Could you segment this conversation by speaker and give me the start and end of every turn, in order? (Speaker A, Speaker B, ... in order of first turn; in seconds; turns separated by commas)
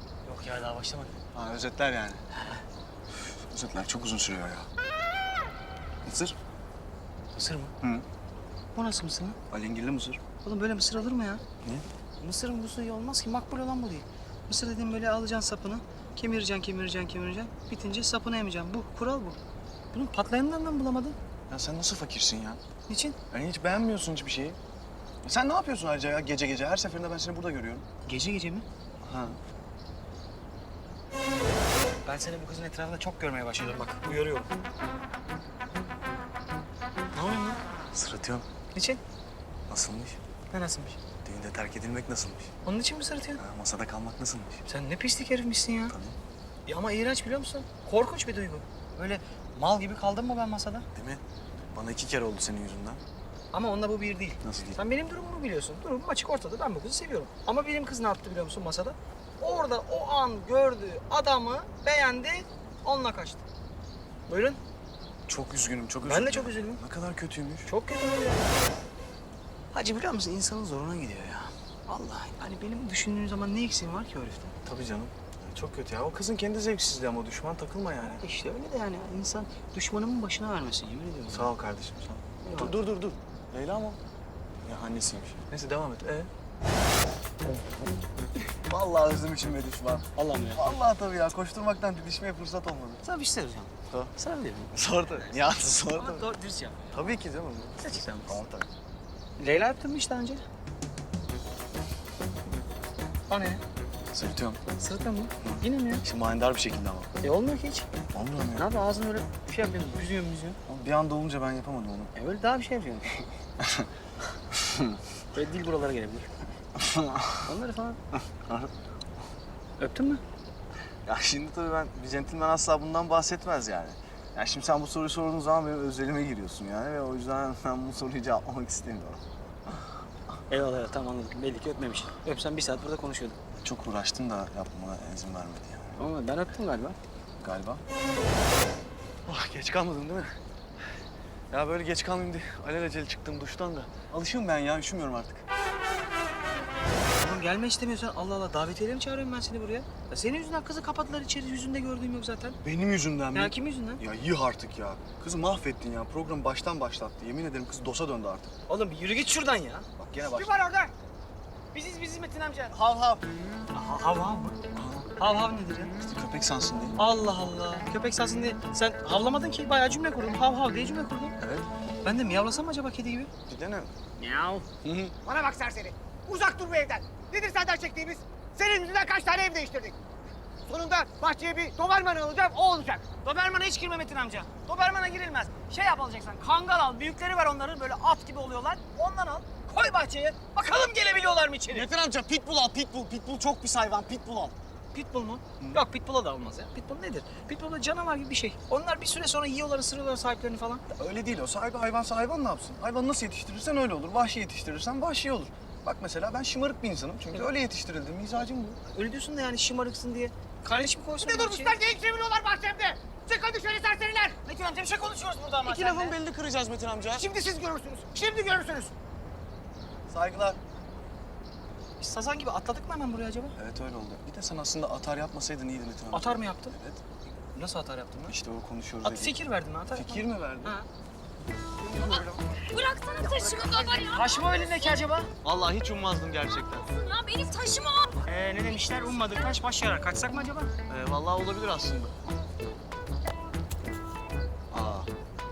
Speaker A: 0.2-1.2, Speaker B: 1.3-2.2, Speaker A: 2.3-2.6, Speaker B: 3.2-4.7, Speaker B: 6.0-6.3, Speaker A: 7.3-7.7, Speaker A: 8.7-9.4, Speaker B: 9.5-10.2, Speaker A: 10.4-11.4, Speaker A: 12.2-19.4, Speaker A: 19.9-21.1, Speaker B: 21.5-22.6, Speaker A: 22.9-23.2, Speaker B: 23.3-24.6, Speaker B: 25.2-27.8, Speaker A: 28.0-28.6, Speaker B: 29.0-29.4, Speaker A: 32.0-34.5, Speaker A: 37.1-37.6, Speaker B: 37.9-38.4, Speaker A: 38.7-39.0, Speaker B: 39.7-40.2, Speaker A: 40.5-41.0, Speaker B: 41.2-42.5, Speaker A: 42.6-43.4, Speaker B: 43.4-44.6, Speaker A: 44.7-46.0, Speaker B: 45.9-46.1, Speaker A: 46.6-50.9, Speaker B: 50.9-51.2, Speaker B: 51.7-53.0, Speaker A: 53.5-63.4, Speaker B: 54.4-54.8, Speaker A: 64.3-64.6, Speaker B: 65.3-67.7, Speaker A: 66.0-66.8, Speaker A: 67.7-68.5, Speaker A: 69.7-74.5, Speaker B: 74.6-78.2, Speaker A: 78.0-81.5, Speaker B: 81.3-84.0, Speaker A: 82.4-82.7, Speaker B: 84.6-86.3, Speaker B: 88.7-93.0, Speaker A: 90.2-90.8, Speaker A: 93.0-94.8, Speaker B: 93.9-94.1, Speaker B: 94.7-96.3, Speaker A: 95.9-96.9, Speaker B: 96.9-98.7, Speaker A: 97.8-98.3, Speaker A: 99.4-100.4, Speaker A: 103.3-103.6, Speaker B: 104.1-104.6, Speaker A: 104.8-106.0, Speaker B: 106.0-107.1, Speaker A: 107.2-107.9, Speaker B: 108.1-108.7, Speaker A: 108.5-110.6, Speaker B: 110.7-112.1, Speaker A: 112.1-113.3, Speaker B: 113.6-113.9, Speaker B: 114.5-115.0, Speaker A: 115.3-116.3, Speaker B: 116.7-117.5, Speaker A: 117.4-118.0, Speaker B: 118.3-118.7, Speaker A: 119.8-120.2, Speaker B: 121.0-129.2, Speaker A: 130.5-133.4, Speaker B: 133.6-136.0, Speaker A: 135.9-137.0, Speaker B: 137.4-137.8, Speaker B: 139.2-140.4, Speaker B: 141.5-145.4, Speaker A: 147.2-152.6, Speaker B: 152.6-158.5, Speaker A: 153.3-154.0, Speaker A: 158.7-160.6, Speaker B: 160.0-160.7, Speaker A: 161.7-162.8, Speaker B: 162.7-163.3, Speaker A: 163.7-164.6, Speaker B: 164.7-165.1, Speaker A: 165.2-165.9, Speaker B: 166.0-167.0, Speaker A: 167.0-171.4, Speaker B: 171.4-171.7, Speaker A: 172.0-173.3, Speaker B: 173.5-173.9, Speaker A: 174.2-174.7, Speaker B: 174.8-175.1, Speaker C: 175.2-179.9, Speaker D: 179.6-179.9, Speaker C: 180.7-183.0, Speaker A: 183.1-191.9, Speaker B: 191.7-194.5, Speaker A: 194.9-200.8, Speaker B: 200.9-208.8, Speaker A: 208.9-211.8, Speaker D: 211.2-211.7, Speaker C: 211.7-214.3, Speaker A: 214.4-216.1, Speaker B: 215.6-217.3, Speaker C: 217.2-218.9, Speaker B: 220.1-220.6, Speaker A: 222.0-223.5, Speaker B: 223.6-227.0, Speaker A: 226.1-226.7, Speaker A: 227.5-228.3, Speaker B: 228.2-229.3, Speaker A: 229.0-230.9, Speaker B: 229.9-230.8, Speaker B: 231.8-232.6, Speaker D: 232.2-234.9, Speaker C: 233.3-234.0, Speaker A: 233.8-235.3, Speaker B: 235.4-236.9, Speaker D: 236.9-238.2, Speaker A: 238.2-240.7, Speaker B: 240.9-242.2, Speaker B: 244.7-245.1